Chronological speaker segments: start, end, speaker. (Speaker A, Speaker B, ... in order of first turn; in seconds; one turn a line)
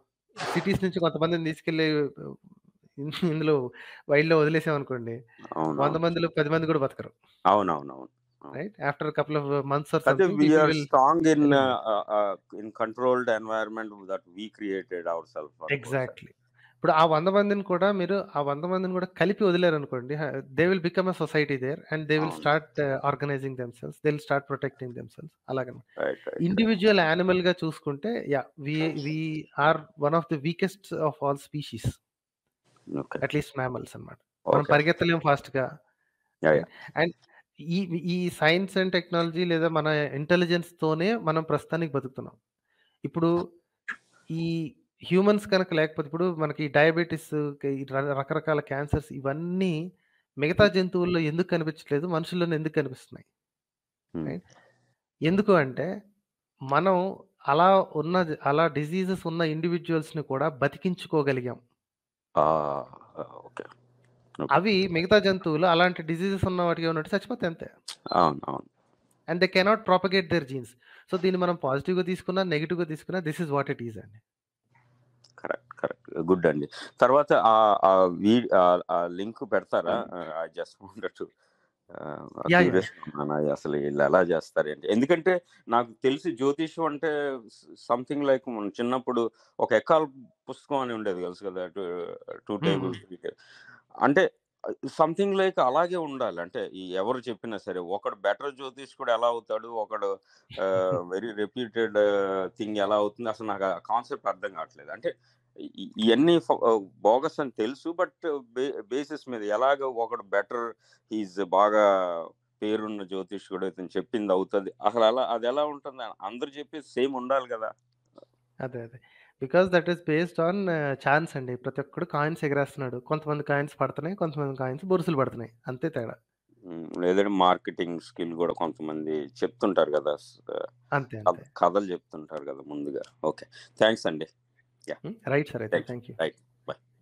Speaker A: 0.5-1.9
Speaker A: 3.0-3.5
Speaker A: 4.1-5.2
Speaker B: 5.6-6.0
Speaker A: 5.8-7.1
Speaker B: 7.5-8.5
Speaker A: 8.5-10.9
Speaker B: 10.1-16.1
Speaker A: 11.4-11.7
Speaker A: 15.7-25.8
Speaker B: 22.2-22.5
Speaker B: 26.0-26.6
Speaker A: 26.4-31.9
Speaker B: 33.0-33.2
Speaker A: 33.2-35.6
Speaker B: 34.5-34.8
Speaker A: 36.5-37.1
Speaker A: 37.7-42.3
Speaker A: 45.1-47.3
Speaker A: 47.9-49.7
Speaker A: 50.4-53.2
Speaker A: 55.3-55.9
Speaker A: 56.7-57.0
Speaker A: 57.5-61.6
Speaker B: 62.4-63.6
Speaker A: 64.5-67.7
Speaker B: 68.2-68.7
Speaker A: 69.3-74.2
Speaker B: 75.4-81.2
Speaker B: 82.0-87.1
Speaker A: 82.5-82.8
Speaker B: 87.9-91.8
Speaker B: 92.5-93.3
Speaker A: 92.7-93.0
Speaker B: 95.0-100.0
Speaker B: 100.6-102.0
Speaker B: 102.5-105.1
Speaker B: 105.8-111.8
Speaker B: 112.6-117.7
Speaker A: 118.7-126.2
Speaker B: 126.7-130.6
Speaker A: 130.9-131.4
Speaker B: 131.3-134.3
Speaker A: 135.1-136.2
Speaker B: 135.7-136.8